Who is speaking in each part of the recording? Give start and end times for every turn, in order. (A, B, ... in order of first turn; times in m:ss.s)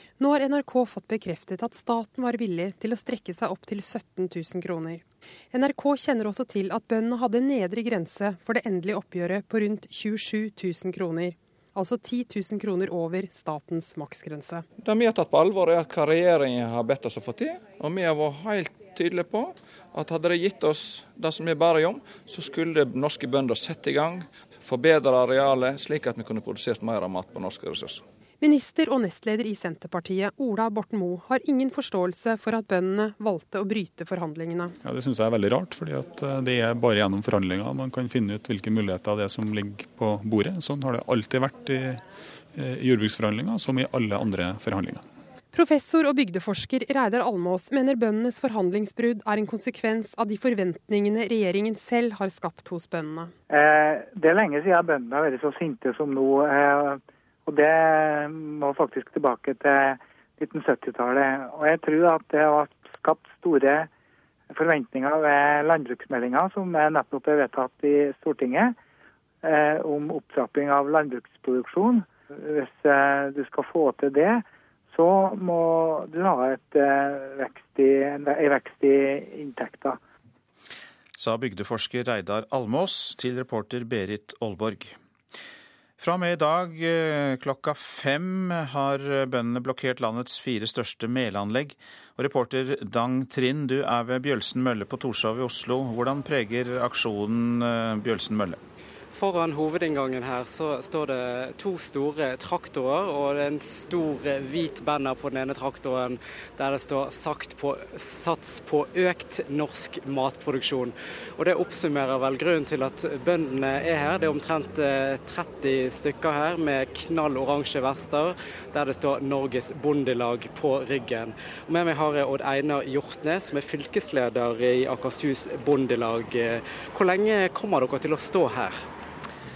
0:00.2-0:14.6 A
0:14.8-0:28.0 B
0:28.4-0:34.7 A
0:34.8-0:45.0 C
0:45.5-0:53.3 A
0:53.5-1:03.9 D
1:04.5-1:08.8 D
1:09.4-1:20.0 D
1:21.2-1:25.0 E
1:26.0-1:38.6 E
1:39.1-2:08.8 F